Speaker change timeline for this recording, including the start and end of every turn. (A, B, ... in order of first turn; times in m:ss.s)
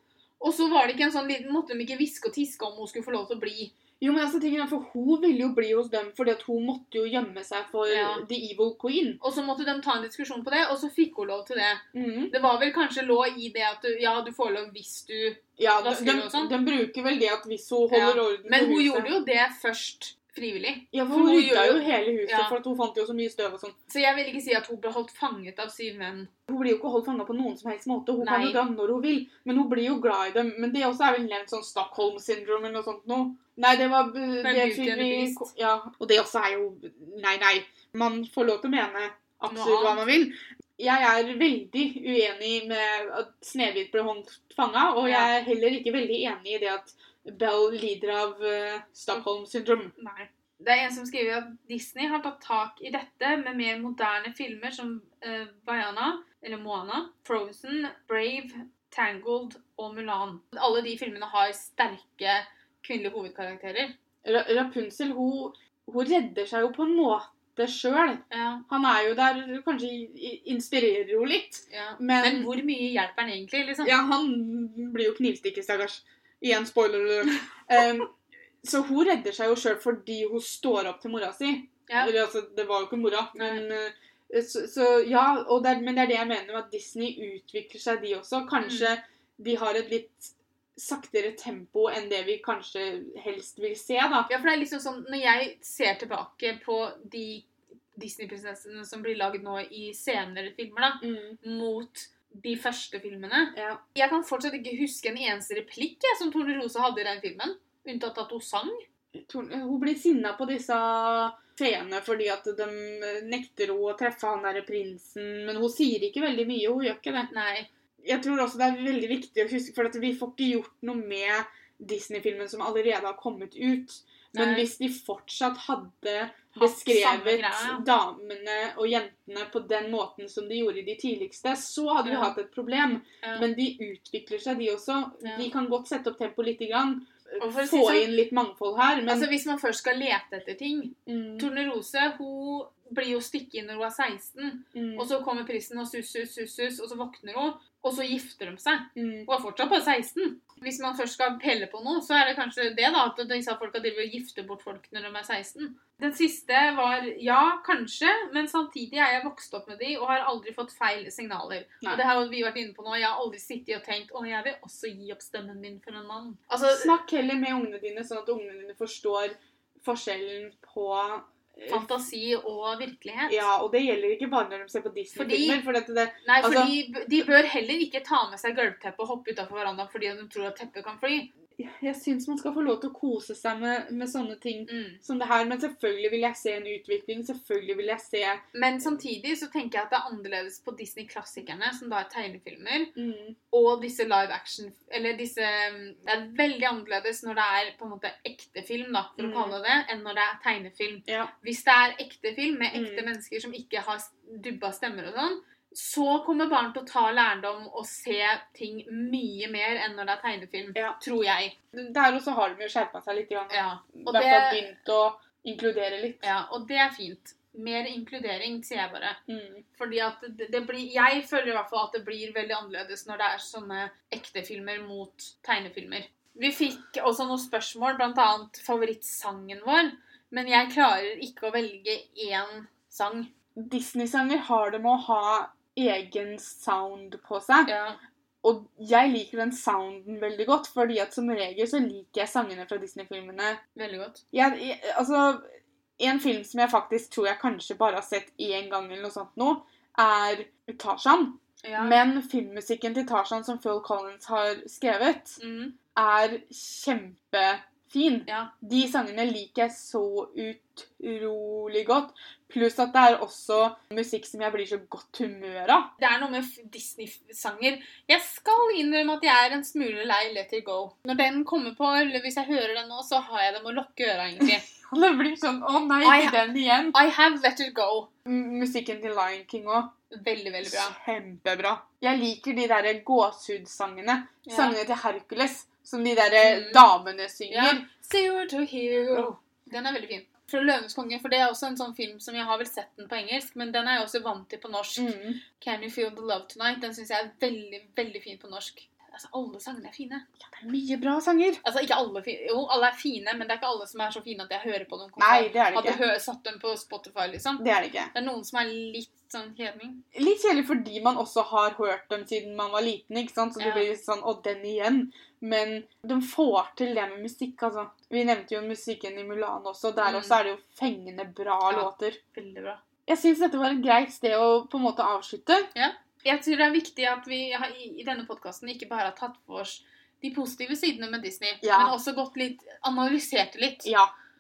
0:00.4-0:03.7 A
0:04.0-0:09.2 B
0:07.9-0:08.2 A
0:09.2-0:16.5 A
0:11.9-0:12.3 B
0:15.6-0:19.1 B
0:17.9-0:22.6 A
0:20.9-0:23.8 B
0:23.9-0:26.3 A
0:26.5-0:49.9 B
0:28.2-0:28.6 A
0:34.4-0:35.5 A
0:39.5-0:40.0 A
0:45.0-0:45.3 A
0:50.0-1:03.9 A
1:04.2-1:12.5 B
1:08.3-1:08.6 A
1:11.7-1:14.0 A
1:13.8-1:34.3 B
1:23.4-1:23.6 A
1:28.6-1:28.9 A
1:34.3-1:48.8 A
1:41.0-1:41.4 B
1:43.5-1:43.8 B
1:49.3-1:57.3 B
1:57.3-1:57.7 A
1:58.0-2:19.3 B
2:04.3-2:04.7 A
2:06.6-2:07.8 A
2:12.0-2:12.3 A
2:15.2-2:15.5 A
2:17.4-2:18.1 A
2:19.1-2:46.9 A
2:21.1-2:21.5 B
2:24.7-2:25.1 B
2:29.0-2:29.3 B
2:46.7-2:52.0 B
2:51.7-2:53.4 A
2:53.3-2:56.8 B
2:55.2-2:55.6 A
2:56.2-3:01.3 A
3:01.6-3:08.4 B
3:04.7-3:05.0 A
3:08.5-3:12.9 A
3:13.0-3:13.4 B
3:13.5-3:31.6 A
3:19.2-3:19.6 B
3:21.1-3:21.3 B
3:22.7-3:23.1 B
3:31.7-3:36.3 B
3:33.5-3:34.6 A
3:36.2-3:39.2 A
3:39.3-3:39.6 B
3:39.8-3:53.3 A
3:53.6-3:57.7 B
3:57.7-3:58.0 A
3:58.4-4:03.6 B
4:03.8-4:04.2 A
4:04.3-4:05.5 B
4:06.0-4:15.4 B
4:11.6-4:12.0 A
4:15.4-4:15.8 A
4:16.0-4:25.9 B
4:18.3-4:18.5 A
4:26.0-4:34.6 A
4:34.4-4:37.0 B
4:36.0-4:36.4 A
4:36.9-4:38.1 A
4:38.3-4:39.9 B
4:40.1-4:41.0 A
4:40.6-4:47.8 B
4:44.5-4:44.8 A
4:46.4-4:46.9 A
4:47.5-5:00.2 A
4:55.0-4:55.4 B
5:00.4-5:01.6 B
5:01.6-5:07.6 A
5:05.2-5:06.0 B
5:07.6-5:08.1 B
5:08.1-5:10.0 A
5:10.2-5:22.2 B
5:13.6-5:13.9 A
5:20.0-5:20.4 A
5:21.7-5:22.8 A
5:23.1-5:25.7 B
5:25.8-5:33.9 A
5:31.6-5:32.0 B
5:33.8-5:34.1 B